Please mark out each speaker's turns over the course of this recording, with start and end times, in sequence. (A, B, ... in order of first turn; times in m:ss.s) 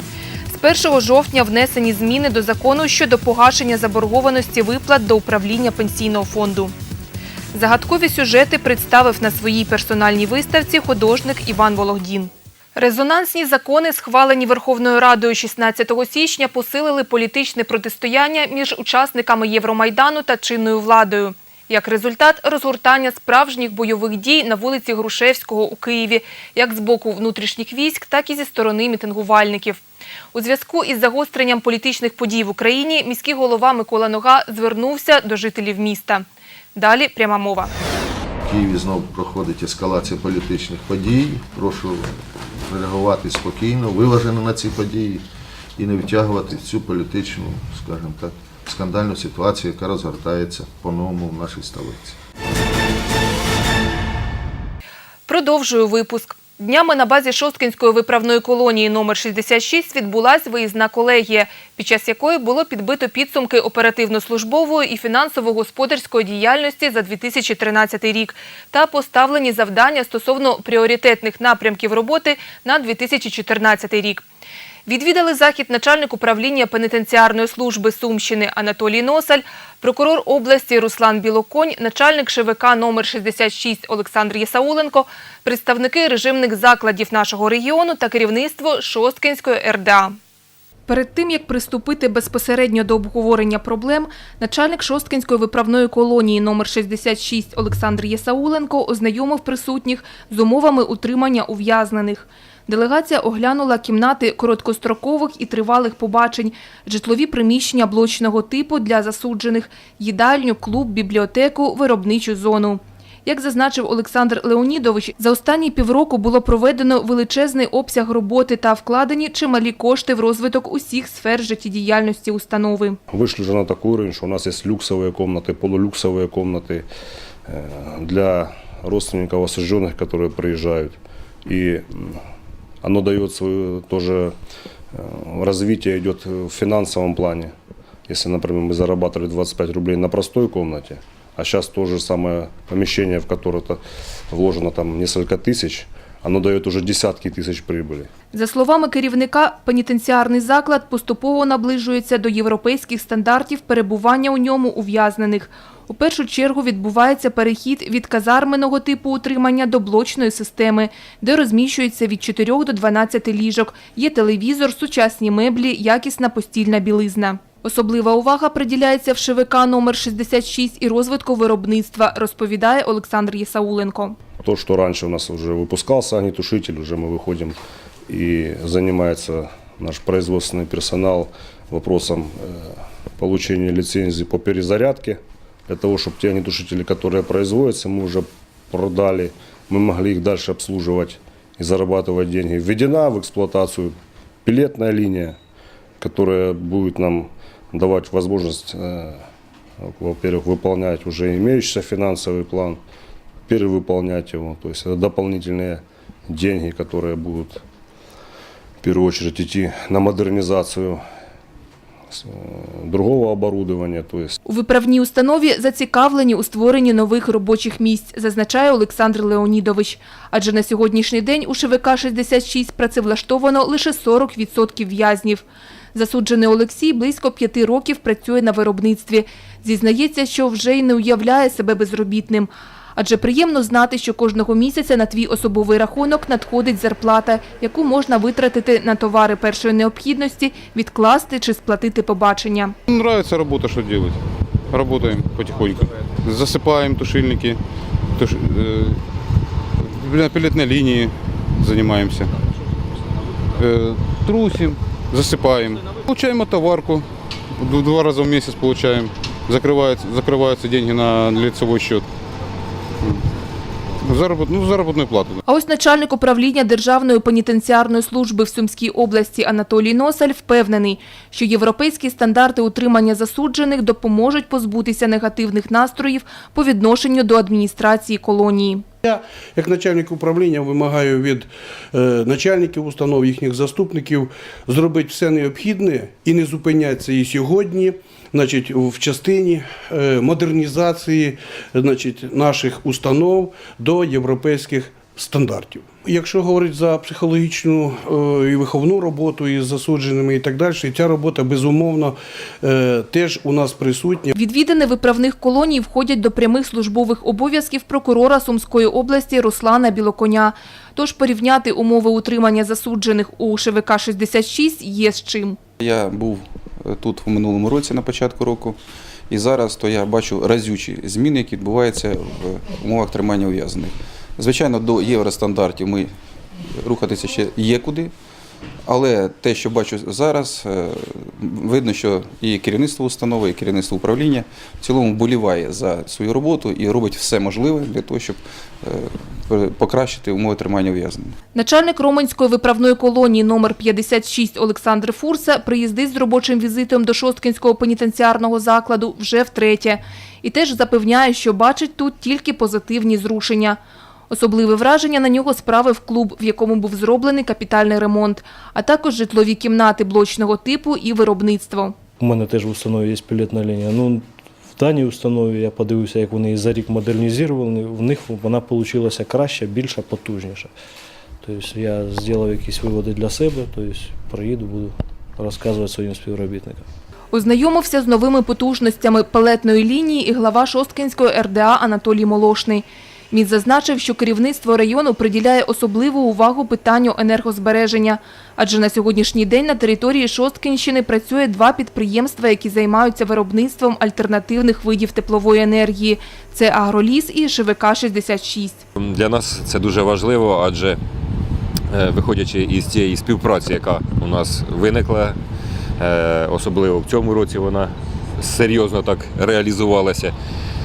0:00.5-0:06.7 A
0:07.5-0:29.8 A
0:30.3-0:37.7 A
0:38.5-0:42.0 B
0:42.7-0:45.2 B
0:45.8-0:52.1 B
0:55.3-1:14.2 A
1:14.8-1:30.2 A
1:30.9-2:03.0 A
2:03.1-2:06.8 C
2:07.5-2:12.2 C
2:12.8-2:14.3 C
2:14.9-2:17.5 C
2:18.1-2:28.1 C
2:28.3-2:54.2 A
2:54.4-2:57.6 C
2:58.1-3:15.4 C
3:16.0-3:19.2 C
3:19.8-3:22.8 C
3:23.5-3:27.6 C
3:28.8-3:31.0 C
3:32.8-3:34.3 C
3:34.4-4:02.7 A
4:03.1-4:04.1 D
4:04.8-4:05.7 D
4:06.4-4:07.5 D
4:10.1-4:11.0 D
4:11.6-4:12.2 D
4:15.3-4:15.6 D
4:16.2-4:16.9 D
4:17.8-4:19.0 D
4:19.6-4:22.0 D
4:24.3-4:25.3 D
4:25.5-4:38.8 A
4:39.0-5:04.3 E
5:04.3-5:15.6 A
5:15.8-5:16.3 F
5:15.9-5:16.4 D
5:16.9-5:18.8 F
5:17.9-5:18.7 D
5:19.3-5:26.0 F
5:19.3-5:20.6 D
5:21.6-5:23.6 D
5:24.4-5:26.1 D
5:26.8-5:28.1 F
5:27.0-5:28.1 D
5:28.9-5:30.9 F
5:29.3-5:29.8 D
5:30.3-5:30.9 D
5:31.5-5:38.4 D
5:31.6-5:38.4 F
5:38.9-5:41.3 D
5:39.5-5:41.1 F
5:41.5-5:53.8 A
5:54.3-6:02.0 A
6:02.2-6:04.2 G
6:04.8-6:10.7 G
6:11.4-6:16.8 G
6:17.3-6:38.8 A
6:39.0-6:41.0 H
6:41.9-6:45.4 H
6:46.0-6:50.3 H